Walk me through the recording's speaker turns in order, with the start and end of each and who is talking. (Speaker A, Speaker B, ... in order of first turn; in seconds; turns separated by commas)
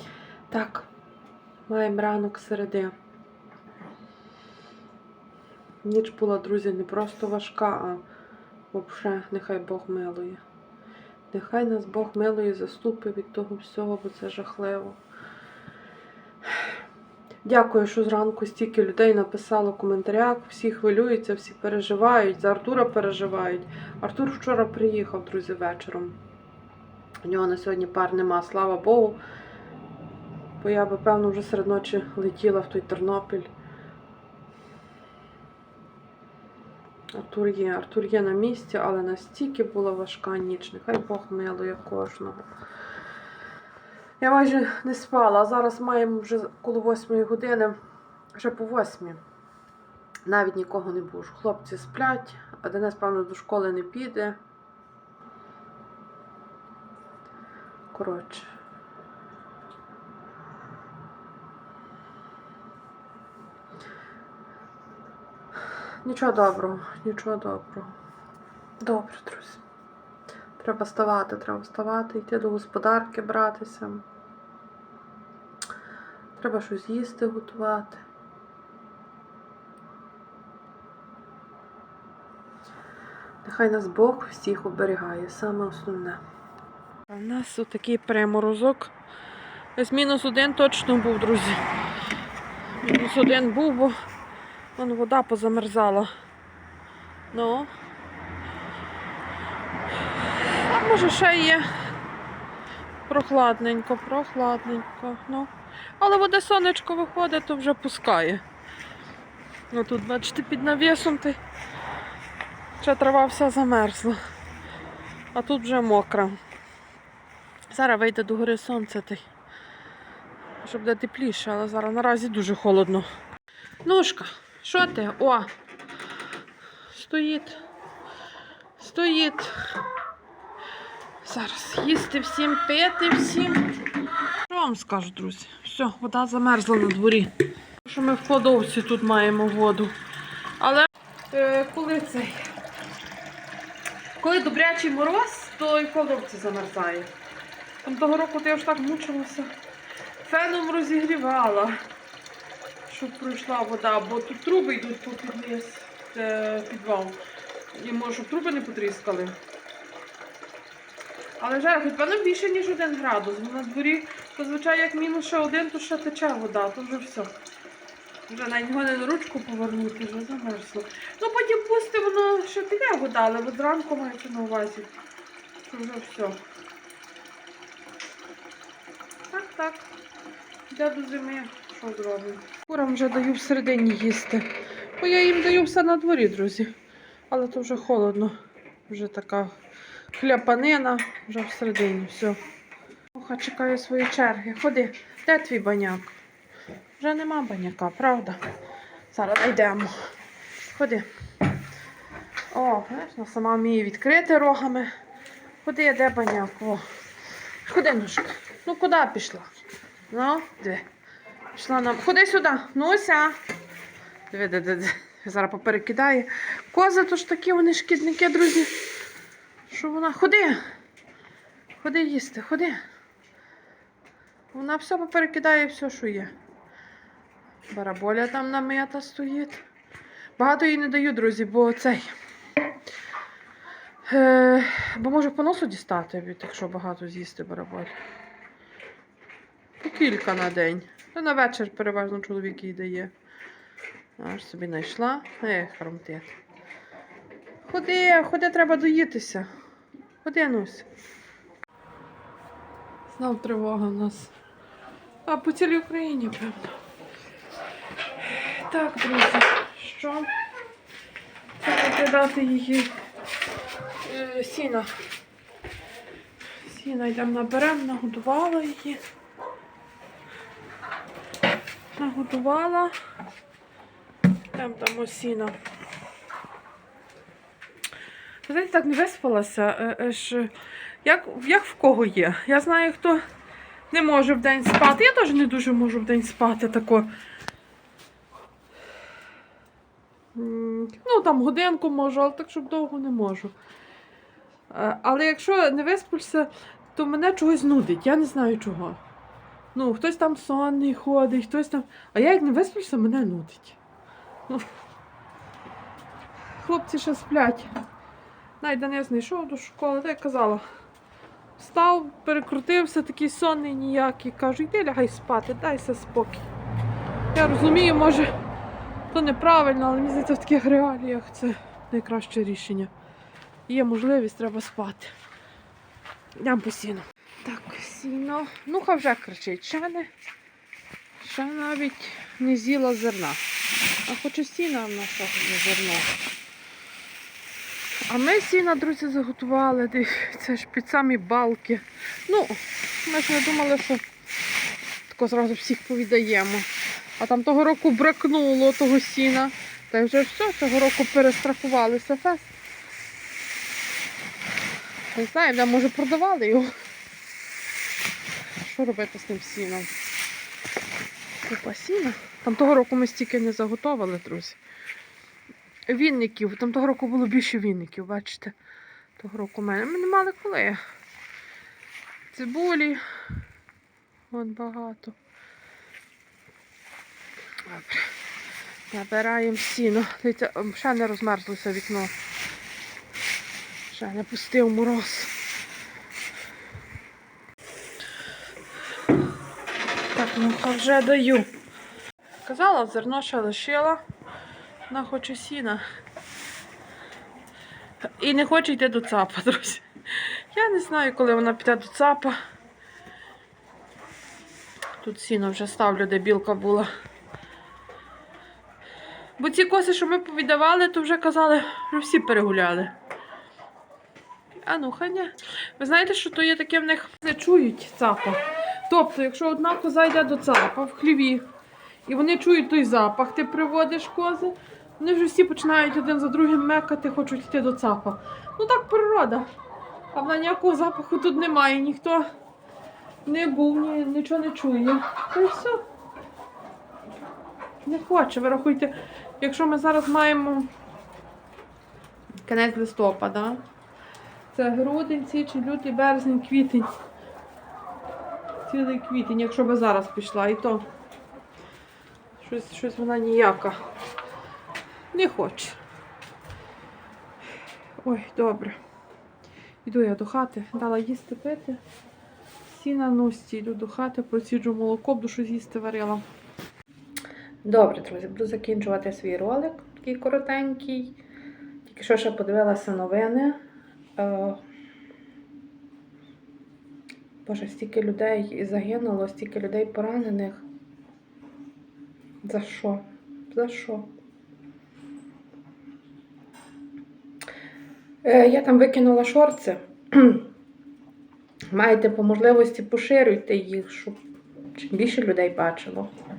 Speaker A: 0.5-0.9, Speaker A: 1.7-2.9, Speaker A: 5.8-8.0, Speaker A: 8.7-10.4, Speaker A: 11.3-15.0, Speaker A: 17.4-26.2, Speaker A: 27.2-29.2, Speaker A: 30.6-33.5, Speaker A: 37.1-42.5, Speaker A: 44.2-47.8, Speaker A: 48.4-49.2, Speaker A: 50.3-54.4, Speaker A: 57.9-58.5, Speaker A: 66.0-67.9, Speaker A: 68.8-69.6, Speaker A: 70.6-74.0, Speaker A: 76.4-78.0, Speaker A: 83.4-86.2, Speaker A: 87.1-88.9, Speaker A: 89.8-91.6, Speaker A: 92.8-94.0, Speaker A: 94.8-96.1, Speaker A: 97.3-97.7, Speaker A: 100.3-101.7, Speaker A: 103.1-108.4, Speaker A: 109.7-111.4, Speaker A: 112.8-114.2, Speaker A: 115.3-116.4, Speaker A: 117.7-119.3, Speaker A: 120.6-123.1, Speaker A: 123.8-125.5, Speaker A: 126.9-127.6, Speaker A: 128.8-129.8, Speaker A: 131.2-133.8, Speaker A: 134.5-139.9, Speaker A: 140.6-142.4, Speaker A: 144.2-147.1, Speaker A: 147.8-149.5, Speaker A: 150.2-151.8, Speaker A: 152.9-157.2, Speaker A: 157.7-159.4, Speaker A: 161.4-167.3, Speaker A: 168.3-174.9, Speaker A: 175.6-176.4, Speaker A: 179.3-179.9, Speaker A: 180.7-186.7, Speaker A: 187.3-188.4, Speaker A: 188.9-189.5, Speaker A: 190.1-192.4, Speaker A: 193.1-196.2, Speaker A: 197.0-198.4, Speaker A: 199.1-199.9, Speaker A: 200.7-201.1, Speaker A: 202.5-204.9, Speaker A: 205.6-206.8, Speaker A: 207.7-209.5, Speaker A: 210.1-210.9, Speaker A: 211.5-213.4, Speaker A: 214.3-218.7, Speaker A: 219.7-220.6, Speaker A: 221.8-222.8, Speaker A: 224.5-226.3, Speaker A: 227.7-229.6, Speaker A: 230.4-232.1, Speaker A: 234.1-237.9, Speaker A: 239.8-243.1, Speaker A: 244.2-246.3, Speaker A: 247.7-249.5, Speaker A: 250.2-250.9, Speaker A: 253.1-254.3, Speaker A: 255.3-256.8, Speaker A: 258.2-260.3, Speaker A: 261.6-262.9, Speaker A: 264.0-264.9, Speaker A: 266.6-269.0, Speaker A: 272.0-272.9, Speaker A: 274.5-275.6, Speaker A: 278.4-280.5, Speaker A: 281.0-283.2, Speaker A: 283.9-287.1, Speaker A: 290.4-293.6, Speaker A: 294.7-299.0, Speaker A: 299.8-303.8, Speaker A: 306.6-307.7, Speaker A: 308.6-310.6, Speaker A: 311.6-316.5, Speaker A: 317.3-318.3, Speaker A: 319.1-322.9, Speaker A: 323.7-325.1, Speaker A: 326.4-330.1, Speaker A: 331.2-333.4, Speaker A: 334.1-336.1, Speaker A: 338.1-344.0, Speaker A: 345.1-352.5, Speaker A: 355.1-356.7, Speaker A: 358.6-359.9, Speaker A: 361.4-364.6, Speaker A: 365.9-368.6, Speaker A: 369.2-370.8, Speaker A: 372.3-373.0, Speaker A: 374.3-375.2, Speaker A: 377.6-378.1, Speaker A: 378.9-382.1, Speaker A: 383.9-385.3, Speaker A: 390.1-391.5, Speaker A: 392.4-394.0, Speaker A: 394.9-395.8, Speaker A: 398.2-402.4, Speaker A: 405.0-406.9, Speaker A: 409.4-412.9, Speaker A: 414.6-421.5, Speaker A: 422.1-429.5, Speaker A: 430.1-432.3, Speaker A: 433.3-435.8, Speaker A: 437.9-440.7, Speaker A: 442.4-443.6, Speaker A: 444.5-446.9, Speaker A: 448.7-450.9, Speaker A: 452.4-453.8, Speaker A: 455.1-455.8, Speaker A: 458.0-458.8, Speaker A: 459.9-461.8, Speaker A: 462.7-466.2, Speaker A: 467.6-471.2, Speaker A: 471.9-473.6, Speaker A: 474.2-474.6, Speaker A: 477.5-480.6, Speaker A: 482.4-484.1, Speaker A: 488.2-490.5, Speaker A: 491.7-494.2, Speaker A: 494.7-496.1